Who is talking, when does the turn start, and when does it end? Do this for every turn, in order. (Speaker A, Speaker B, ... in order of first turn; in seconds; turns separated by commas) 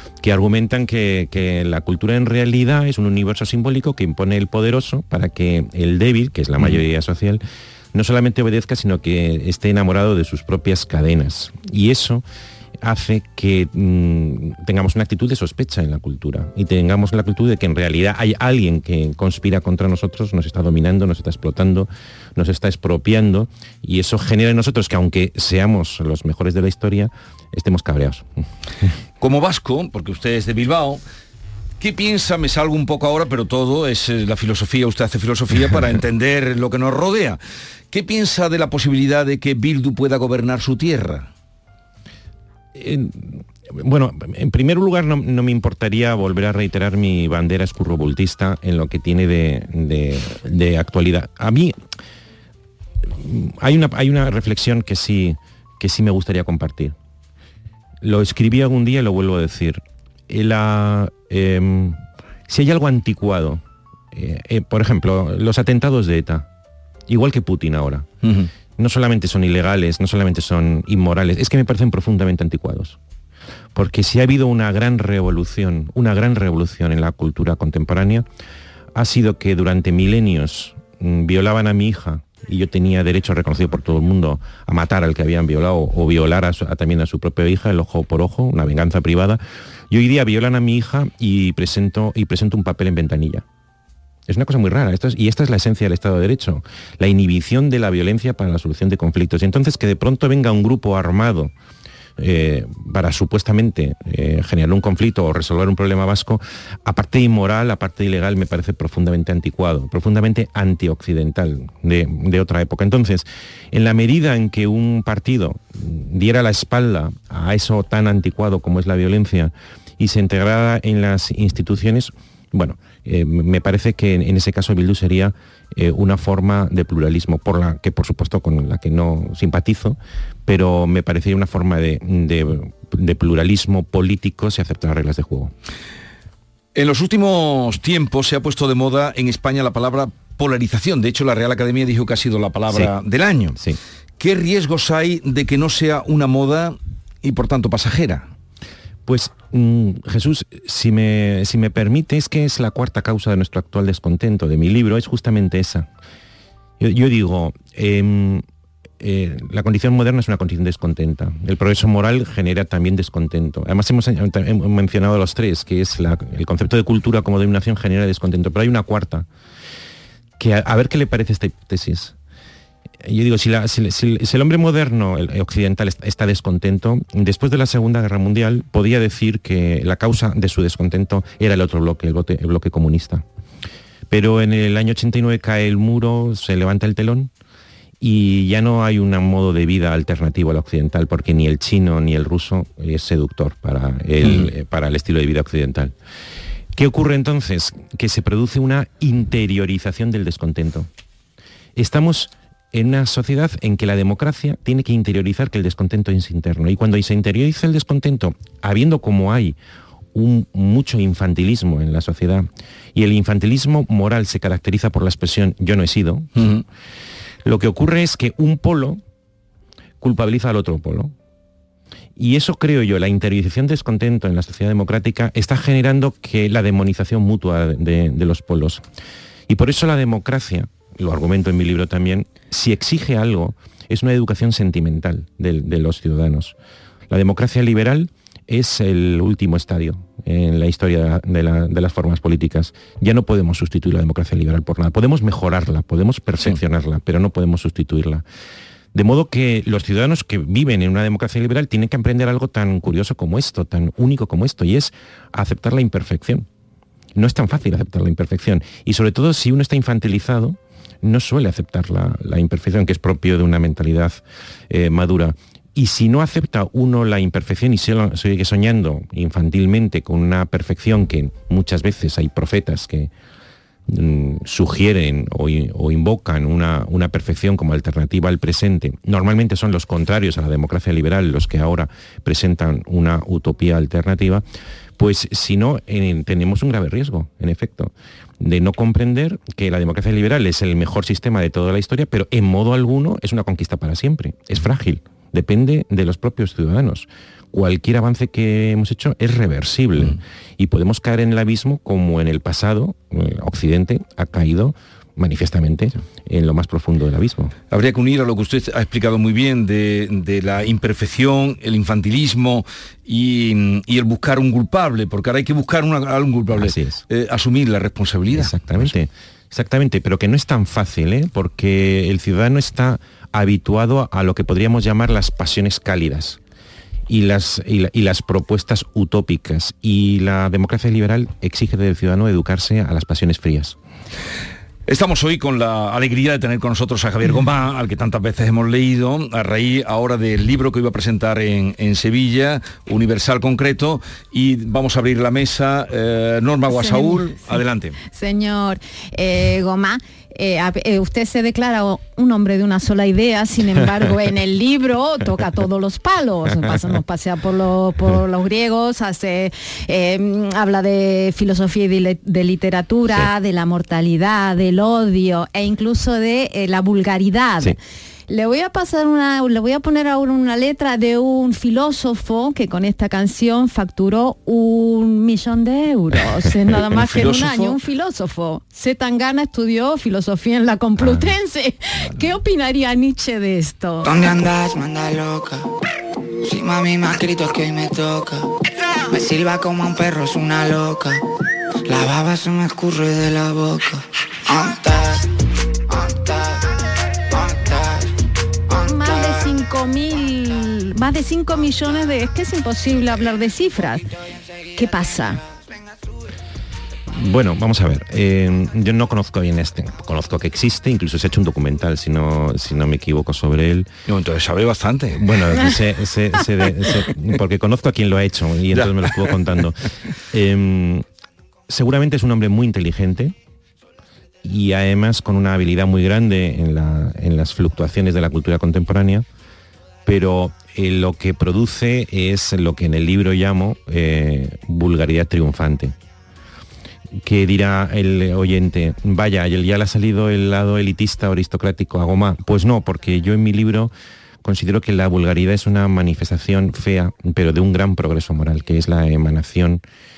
Speaker A: 0.2-7.4, Speaker A: 7.9-12.2, Speaker A: 12.8-28.3, Speaker B: 29.2-31.0, Speaker B: 31.8-37.4, Speaker B: 37.9-41.3, Speaker A: 42.8-51.8, Speaker A: 53.2-57.0, Speaker A: 58.0-63.6, Speaker A: 64.1-66.5, Speaker A: 67.1-68.1, Speaker B: 68.2-68.5, Speaker A: 68.8-73.0, Speaker A: 73.8-78.3, Speaker A: 79.0-93.5, Speaker A: 94.3-101.5, Speaker A: 102.2-135.5, Speaker B: 136.7-143.6, Speaker B: 144.2-148.3, Speaker A: 149.1-155.9, Speaker A: 156.8-158.4, Speaker A: 159.0-169.3, Speaker A: 170.4-172.1, Speaker A: 173.0-183.2, Speaker A: 184.1-187.3, Speaker A: 188.0-195.9, Speaker A: 196.8-200.9, Speaker A: 201.8-209.6, Speaker A: 210.1-216.5, Speaker B: 216.4-216.6, Speaker A: 217.4-219.0, Speaker A: 220.0-221.1, Speaker A: 222.2-228.8, Speaker A: 229.5-236.6, Speaker A: 237.1-248.2, Speaker A: 248.9-256.4, Speaker A: 257.2-273.1, Speaker A: 273.9-284.4, Speaker A: 285.0-307.5, Speaker B: 307.7-318.9, Speaker A: 316.5-317.0, Speaker A: 318.3-326.4, Speaker A: 327.1-333.8, Speaker B: 334.9-348.0, Speaker C: 346.7-367.8, Speaker C: 368.3-384.1, Speaker B: 377.1-377.8, Speaker A: 381.0-381.3, Speaker B: 382.0-382.3, Speaker D: 384.0-385.7, Speaker D: 386.4-388.5, Speaker D: 389.1-391.2, Speaker D: 391.9-395.3, Speaker D: 395.9-396.6, Speaker D: 397.3-398.1, Speaker C: 398.7-404.1, Speaker C: 404.7-405.4, Speaker A: 407.1-413.9, Speaker B: 414.1-415.4, Speaker A: 415.2-421.1, Speaker B: 418.7-419.3, Speaker A: 421.7-423.4, Speaker A: 424.4-429.3, Speaker A: 430.1-435.9, Speaker A: 437.2-443.9, Speaker A: 444.4-449.8